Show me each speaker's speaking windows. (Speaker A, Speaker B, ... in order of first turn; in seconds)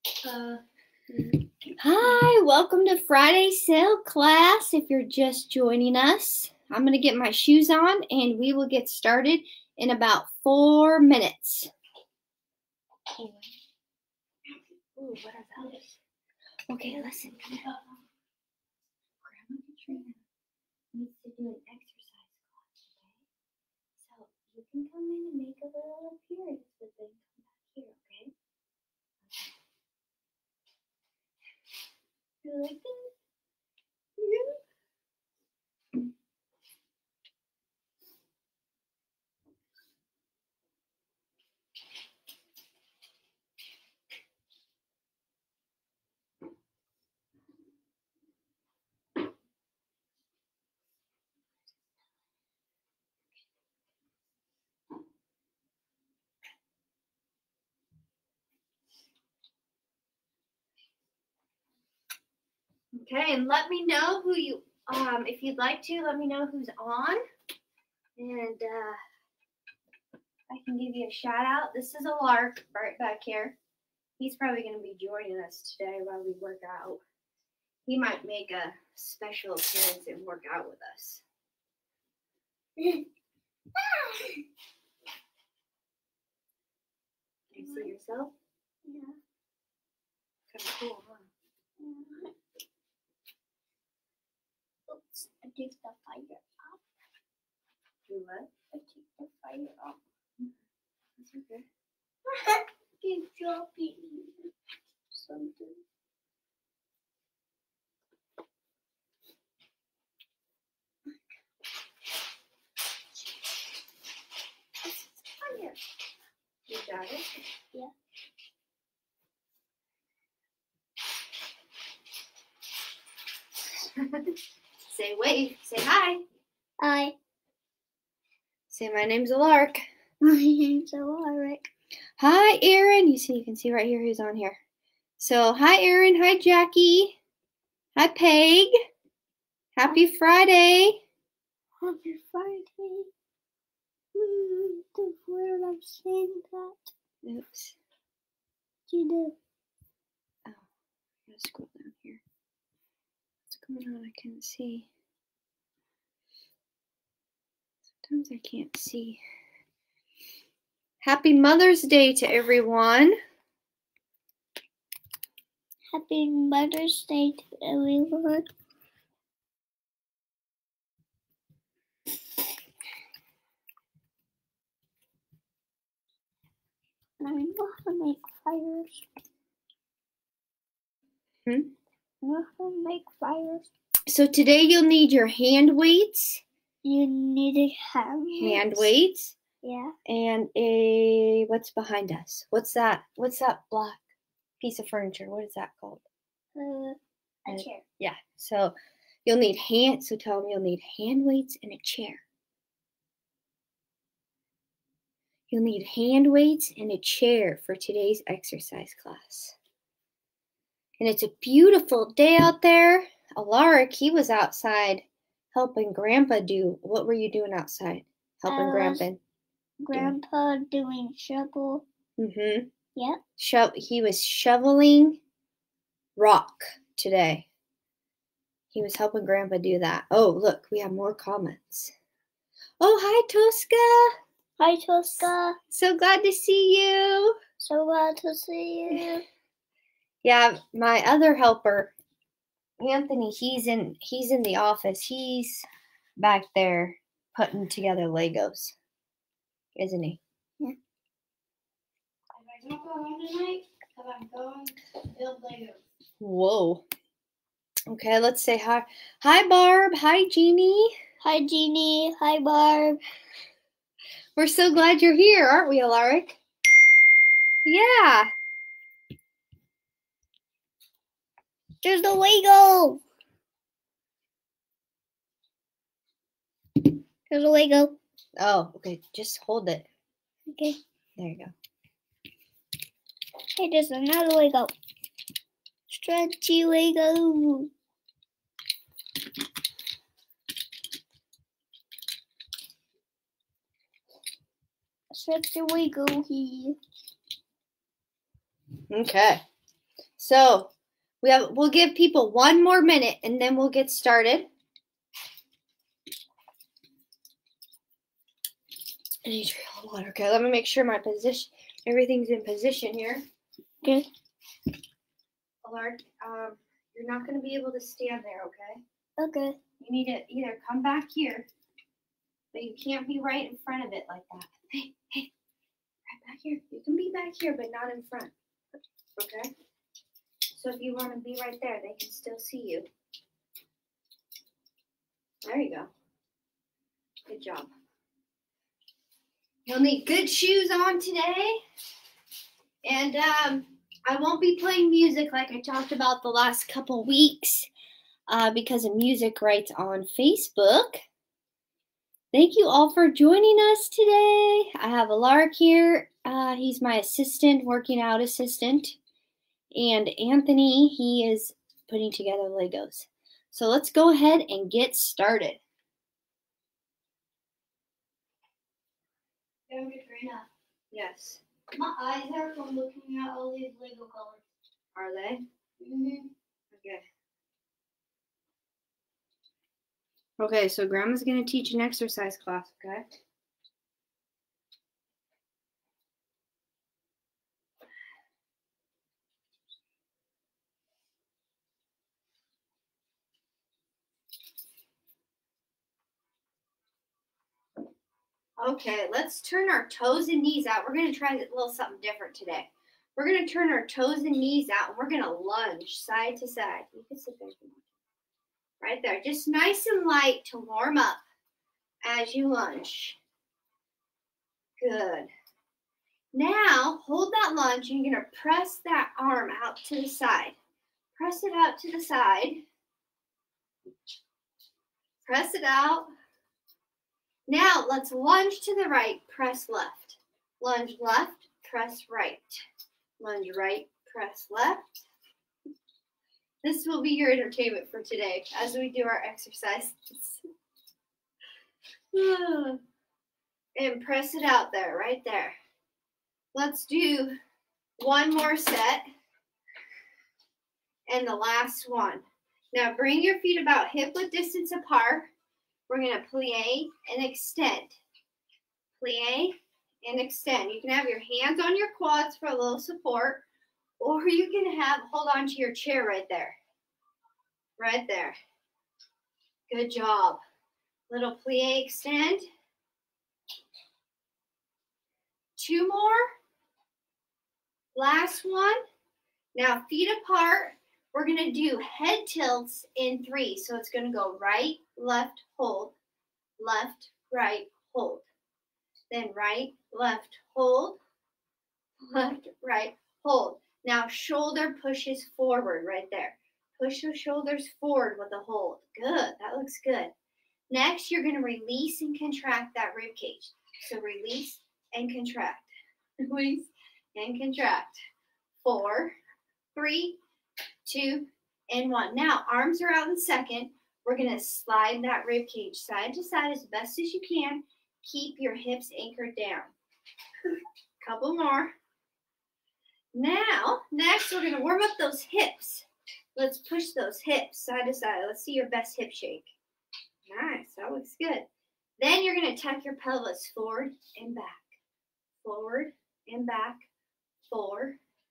Speaker A: 0.2-1.7, 252.3-255.8, 369.7-370.5, 371.7-374.4, 375.8-376.3
Speaker B: 1.8-11.7, 13.1-13.4, 14.9-15.9, 16.7-17.7, 19.2-20.2, 20.9-23.2, 24.0-28.3, 29.2-29.5, 32.4-33.1, 34.2-34.6, 62.9-67.2, 68.2-69.0, 70.5-73.6, 74.2-77.0, 77.8-81.2, 87.5-88.3, 90.5-91.3, 98.1-98.5, 101.2-101.7, 116.7-117.3, 124.0-124.3, 124.9-126.2, 128.7-129.8, 132.2-134.6, 135.2-137.2, 137.9-138.7, 139.8-141.0, 147.2-147.8, 151.3-152.2, 153.5-154.9, 158.0-159.2, 161.0-163.2, 181.4-181.7, 184.1-186.4, 188.4-189.4, 190.1-194.0, 194.6-196.0, 197.5-202.2, 205.5-209.6, 211.0-219.2, 222.2-222.7, 223.4-225.2, 226.2-227.5, 228.7-231.9, 232.8-234.1, 235.7-237.3, 240.2-241.9, 242.8-245.7, 246.2-248.8, 249.8-250.2, 256.2-256.8, 257.9-260.9, 264.4-266.4, 267.6-268.3, 278.4-279.9, 281.2-281.5, 298.9-299.4, 300.2-300.7, 301.2-304.5, 309.2-313.2, 315.6-318.8, 319.8-321.5, 322.5-325.3, 326.1-328.3, 329.2-329.5, 330.5-332.9, 335.4-335.9, 337.3-337.7, 339.7-341.6, 342.8-347.7, 348.3-351.0, 352.3-359.0, 359.7-365.6, 370.9-371.4, 374.9-375.4, 376.7-377.0, 380.4-383.1, 398.6-407.9, 408.8-411.2, 412.0-413.2, 414.8-415.3, 416.3-420.5, 421.2-422.6, 425.2-426.1, 427.5-432.6, 433.2-435.1, 436.6-440.4, 442.1-442.8, 443.8-445.6, 446.5-447.4, 448.0-449.0, 451.1-455.3, 455.9-458.0, 459.0-463.4, 464.0-466.6, 467.8-468.4, 469.7-470.4, 471.1-472.5, 475.6-476.3, 477.9-478.8, 479.5-485.9, 486.6-488.2, 489.1-491.0, 492.0-500.1, 500.7-505.7, 506.2-508.0, 508.6-509.1, 509.7-510.2, 510.9-519.7, 521.0-521.7, 523.1-529.5, 530.3-531.5, 532.0-534.7, 535.4-536.8, 537.5-538.0
Speaker C: 82.8-83.0, 83.7-84.4, 87.6-87.9, 88.8-89.2, 91.8-92.3, 94.9-96.8, 98.7-100.0, 102.2-104.5, 105.1-105.8, 126.8-127.2, 130.2-131.7, 141.8-143.1, 144.1-146.9, 148.9-149.3, 165.9-168.5, 177.2-179.0, 182.2-183.7, 186.8-188.9, 189.6-189.9, 196.5-197.8, 218.5-219.0, 219.8-221.8, 234.6-235.6, 237.6-239.2, 261.2-263.0, 271.8-273.0, 277.3-278.0, 280.5-280.8, 283.6-284.7, 285.9-287.7, 295.1-296.8, 313.8-314.1, 319.2-319.6